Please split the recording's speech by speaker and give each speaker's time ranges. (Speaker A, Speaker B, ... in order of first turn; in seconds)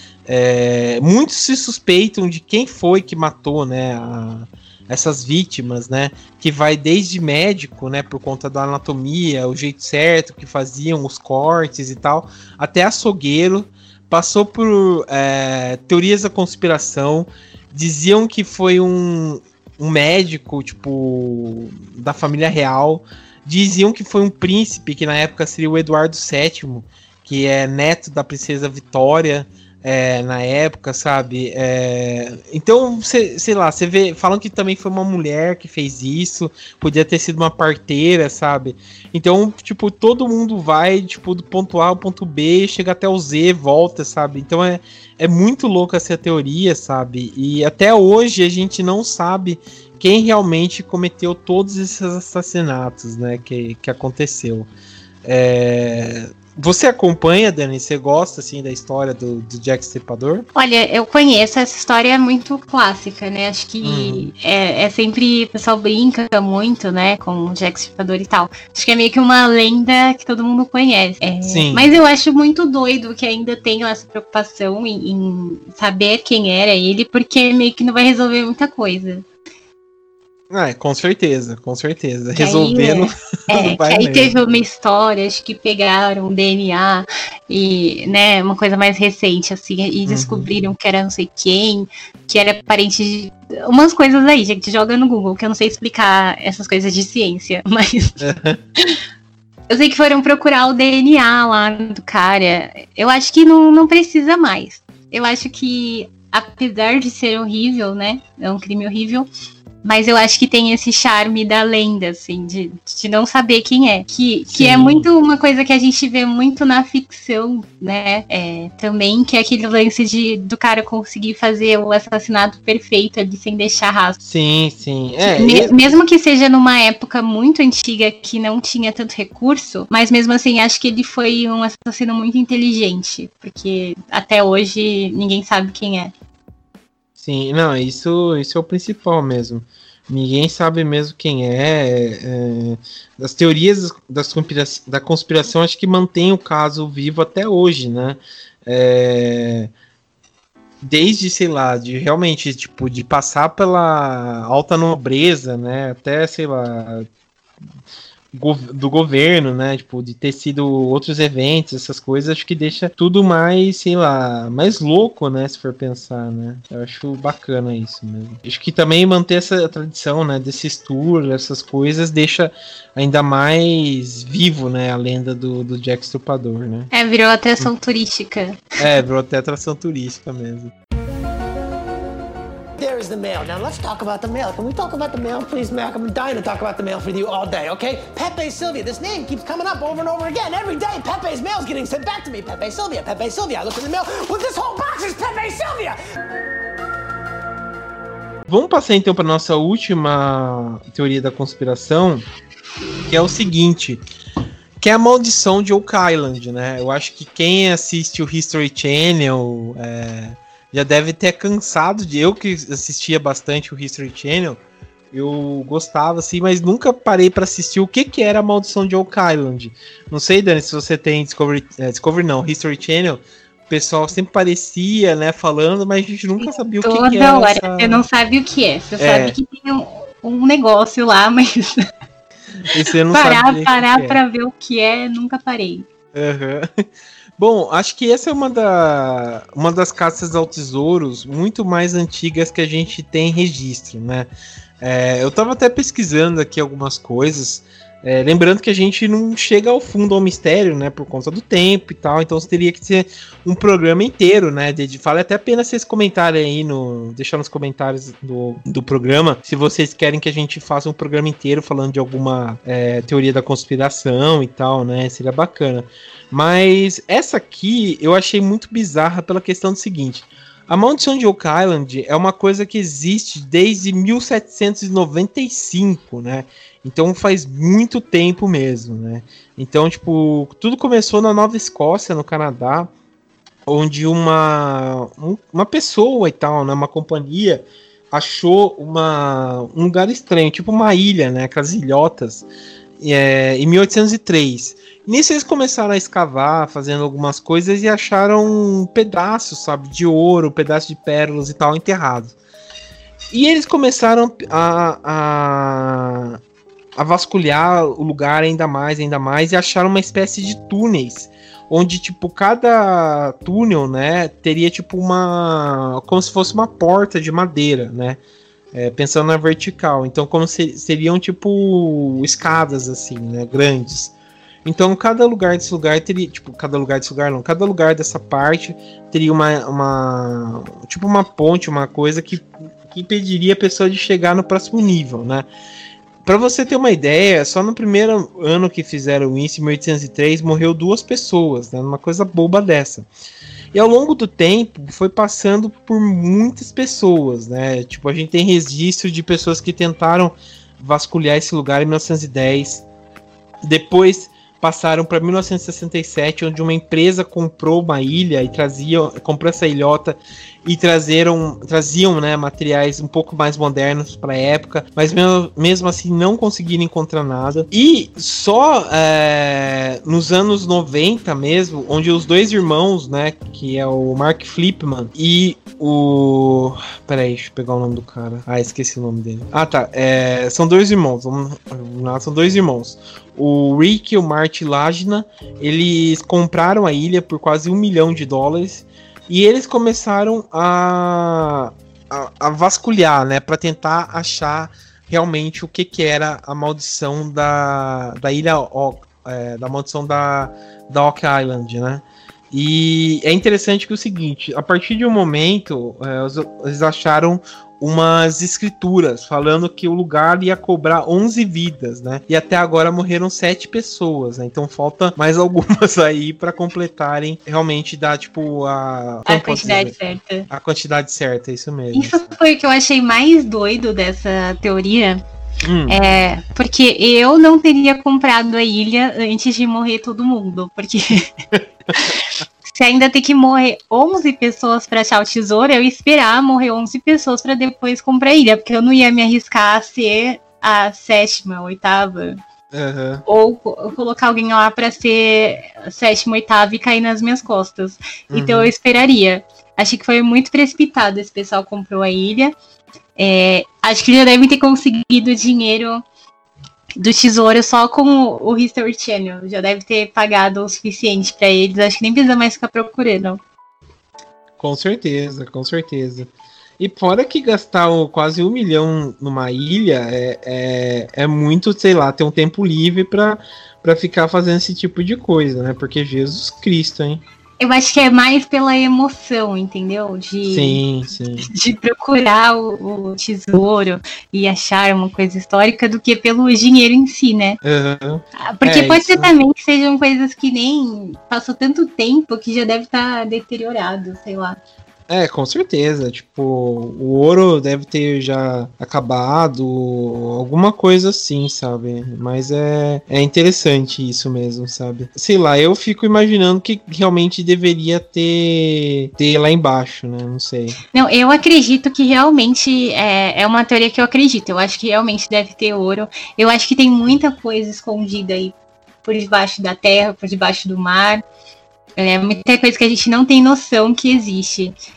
Speaker A: 0.3-54.7, 55.2-60.5, 63.8-64.3, 71.4-71.9, 80.5-84.4, 90.1-90.5, 98.2-98.6, 114.5-115.1, 124.2-125.7, 137.2-149.7, 150.8-157.1, 158.3-176.9, 178.8-180.7, 198.5-202.2, 203.1-204.0, 204.8-214.6, 215.1-228.0, 229.0-229.4, 232.6-234.2, 236.1-236.8, 237.4-244.3, 244.8-282.9, 283.6-292.5, 293.0-302.4, 303.3-306.4, 306.9-318.2, 318.7-324.1, 324.6-335.5, 336.2-343.1, 343.7-352.9, 353.6-420.0, 420.5-422.3, 425.6-426.0, 431.6-432.0, 442.7-443.2, 448.3-448.7, 464.6-477.2, 480.5-481.5, 487.6-489.3, 495.1-510.8
Speaker B: 60.5-79.2, 82.3-98.2, 99.7-109.3, 109.8-124.2, 125.2-136.1, 176.9-178.8, 226.4-231.8, 233.1-235.9, 419.2-420.5, 421.9-425.2, 425.9-431.3, 431.9-442.4, 443.2-452.5, 453.2-456.0, 457.0-463.4, 477.6-480.8, 481.4-487.6, 488.4-494.6, 510.9-521.2, 522.0-524.7
Speaker C: 182.8-196.0